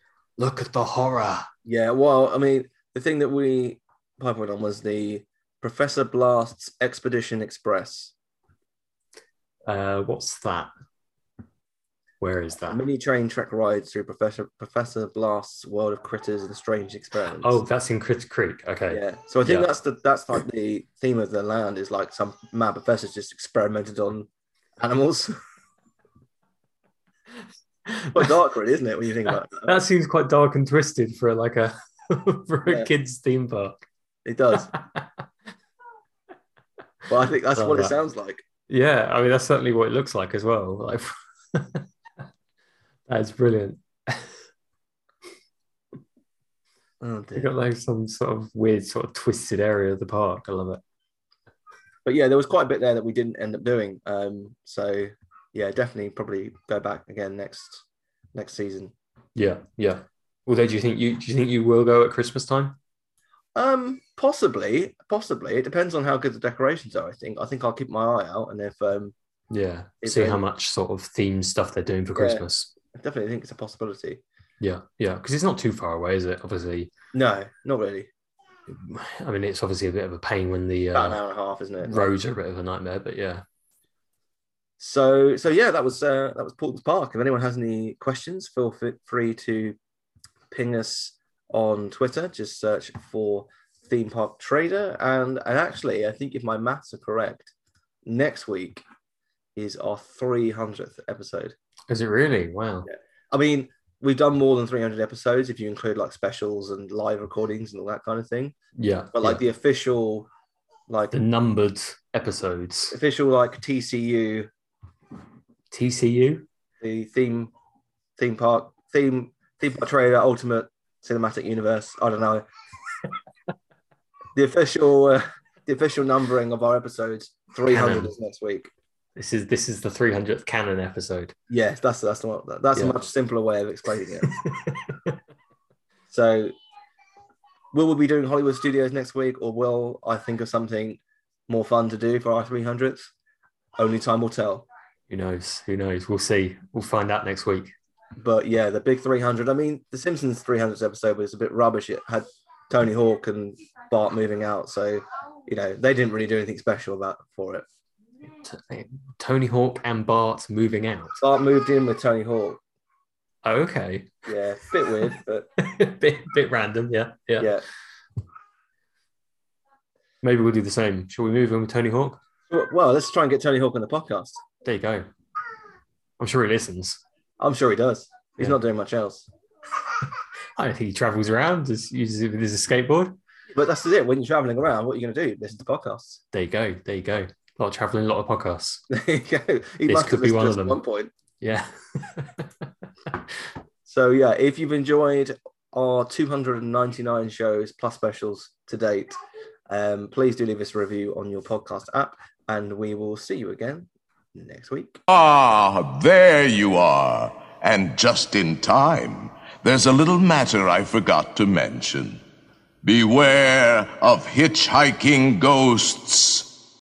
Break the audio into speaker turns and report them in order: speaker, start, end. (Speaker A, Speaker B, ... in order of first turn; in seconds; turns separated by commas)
Speaker A: 0.4-1.5, Speaker B: 1.7-8.1, Speaker A: 9.7-10.7, Speaker A: 12.2-12.8, Speaker B: 12.7-17.6, Speaker A: 17.4-19.7, Speaker B: 18.9-24.3, Speaker B: 24.8-25.4, Speaker A: 27.9-28.3, Speaker B: 28.1-29.8, Speaker A: 29.6-33.8, Speaker B: 34.2-34.7, Speaker A: 34.7-35.0, Speaker B: 37.1-38.4, Speaker A: 37.6-37.9, Speaker A: 38.7-41.9, Speaker A: 43.1-44.3, Speaker B: 47.0-47.5, Speaker A: 47.4-50.8, Speaker B: 52.1-57.8, Speaker B: 58.4-58.9, Speaker A: 59.4-62.8, Speaker B: 63.6-69.1, Speaker A: 69.5-72.7, Speaker B: 70.0-70.4, Speaker B: 72.2-74.2, Speaker A: 74.6-76.9, Speaker B: 77.1-78.1, Speaker A: 78.7-81.2, Speaker B: 80.9-82.1, Speaker A: 81.8-83.4, Speaker B: 84.8-89.8, Speaker B: 90.5-97.5, Speaker B: 98.1-98.8, Speaker B: 99.6-101.5, Speaker A: 101.9-102.9, Speaker B: 102.9-108.5, Speaker A: 108.8-109.4, Speaker B: 109.1-110.3, Speaker B: 110.9-111.2, Speaker A: 111.1-113.0, Speaker B: 112.9-114.5, Speaker A: 115.7-116.5, Speaker B: 116.8-117.5, Speaker B: 118.2-122.5, Speaker B: 124.4-128.7, Speaker A: 127.7-128.1, Speaker A: 129.2-131.3, Speaker B: 131.5-134.3, Speaker A: 134.2-135.2, Speaker B: 136.1-136.5, Speaker B: 137.7-143.1, Speaker B: 143.8-144.7, Speaker A: 145.1-147.7, Speaker B: 148.2-157.7, Speaker A: 158.4-161.2, Speaker B: 161.2-162.6, Speaker A: 163.4-164.3, Speaker B: 164.3-165.5, Speaker A: 165.0-167.5, Speaker B: 167.4-167.7, Speaker A: 170.2-172.2, Speaker B: 172.5-174.4, Speaker A: 174.6-175.1, Speaker A: 176.2-177.0, Speaker B: 177.4-179.3, Speaker A: 180.6-183.2, Speaker B: 183.5-186.2, Speaker A: 186.3-188.8, Speaker B: 188.9-191.1, Speaker A: 189.9-190.8, Speaker A: 191.4-192.5, Speaker B: 193.9-199.2, Speaker B: 199.7-205.0, Speaker C: 205.1-212.2, Speaker C: 212.8-216.5